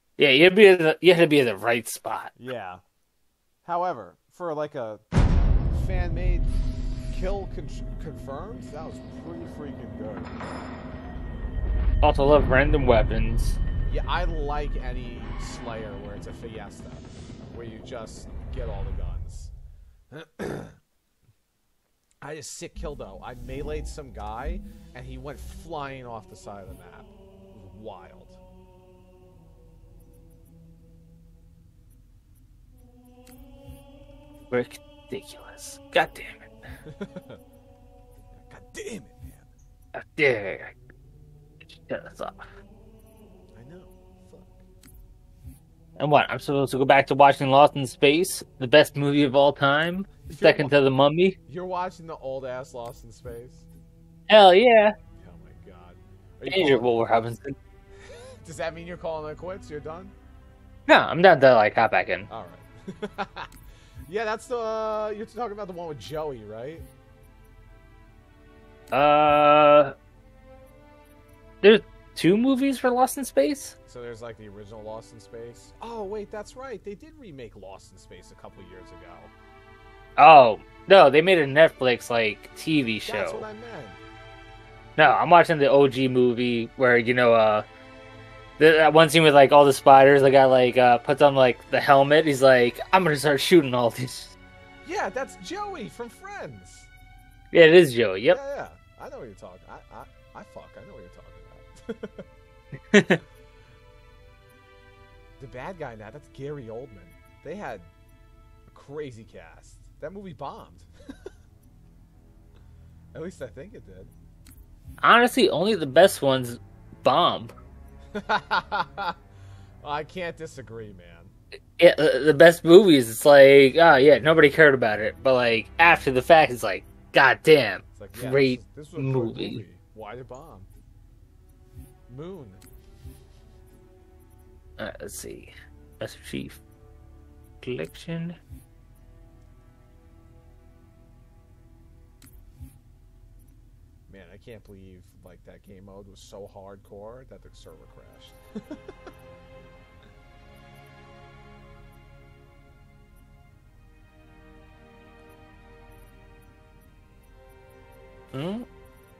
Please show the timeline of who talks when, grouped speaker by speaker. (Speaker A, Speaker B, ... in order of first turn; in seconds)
Speaker A: 0.2-2.3, 12.0-13.6, 34.5-36.5, 39.9-40.8, 41.7-42.5, 46.0-51.4, 54.3-54.9, 56.5-57.5, 60.9-62.3, 68.9-69.9, 71.6-73.7, 80.2-83.4, 85.0-87.6, 88.6-94.3, 97.5-98.4, 102.9-103.2, 115.0-117.5, 121.8-129.6, 134.8-136.6, 137.6-138.4, 158.3-158.7
Speaker B: 2.4-2.8, 3.6-5.0, 5.7-6.5, 7.1-10.5, 13.9-19.5, 20.1-20.8, 22.2-28.4, 36.9-37.4, 38.3-39.5, 43.5-44.6, 50.3-50.7, 51.5-53.6, 55.2-57.0, 58.0-60.1, 62.3-63.5, 64.0-66.8, 73.9-79.3, 83.0-84.0, 94.8-96.9, 98.3-102.2, 105.4-107.9, 108.7-110.9, 113.1-114.1, 118.1-119.2, 119.8-121.3, 127.9-130.7, 132.1-132.6, 144.1-148.9